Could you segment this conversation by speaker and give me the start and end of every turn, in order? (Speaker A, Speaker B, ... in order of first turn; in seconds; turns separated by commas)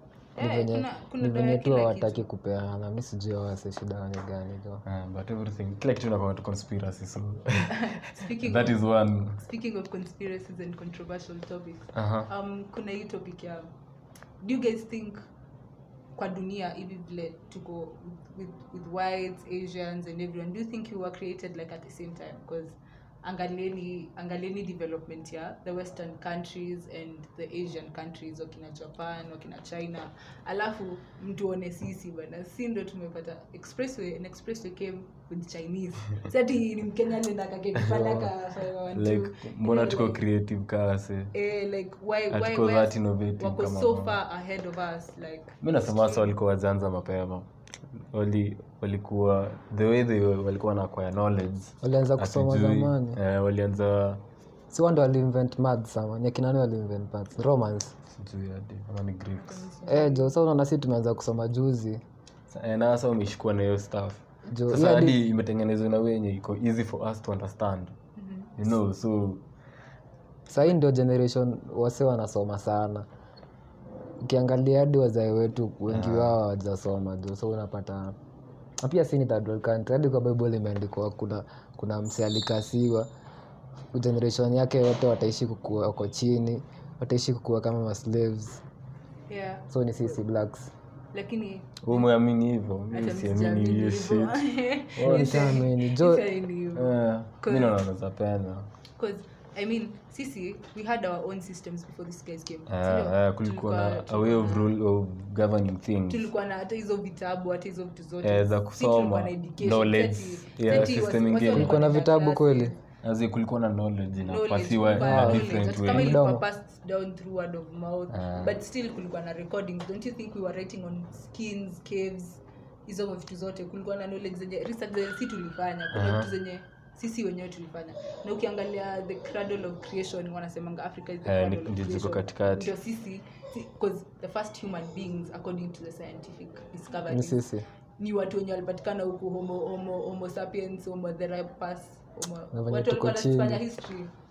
Speaker A: 0.3-2.2, Speaker B: 0.4-4.8, Speaker C: 4.8-9.4, Speaker A: 7.7-8.8, Speaker A: 9.4-13.7, Speaker C: 11.9-12.3, Speaker A: 14.4-15.2, Speaker A: 16.1-40.2, Speaker C: 38.9-41.3, Speaker A: 41.3-46.3, Speaker C: 42.3-44.2, Speaker C: 45.6-54.2, Speaker B: 51.8-53.2, Speaker B: 54.7-58.0, Speaker C: 58.1-59.6, Speaker A: 59.4-60.3, Speaker B: 59.9-62.0, Speaker C: 62.5-68.0, Speaker B: 64.5-65.2, Speaker A: 68.2-68.5, Speaker C: 68.6-69.4, Speaker B: 70.5-73.0, Speaker B: 74.2-78.2, Speaker C: 75.9-76.4, Speaker B: 78.8-83.1, Speaker B: 83.9-88.6, Speaker A: 89.3-89.7, Speaker B: 89.7-90.7, Speaker A: 91.1-92.1, Speaker C: 91.8-94.3, Speaker A: 92.9-97.8, Speaker C: 95.0-95.5, Speaker B: 95.0-96.2, Speaker C: 96.7-98.7, Speaker A: 99.0-104.7, Speaker C: 102.7-106.3, Speaker A: 106.1-112.8, Speaker C: 108.2-111.8, Speaker B: 111.5-112.7, Speaker C: 113.0-116.2, Speaker A: 114.2-137.4, Speaker B: 115.0-116.4, Speaker C: 118.1-118.6, Speaker C: 125.9-126.3, Speaker C: 131.2-132.7, Speaker B: 137.1-137.6, Speaker A: 138.0-144.1, Speaker B: 142.5-143.6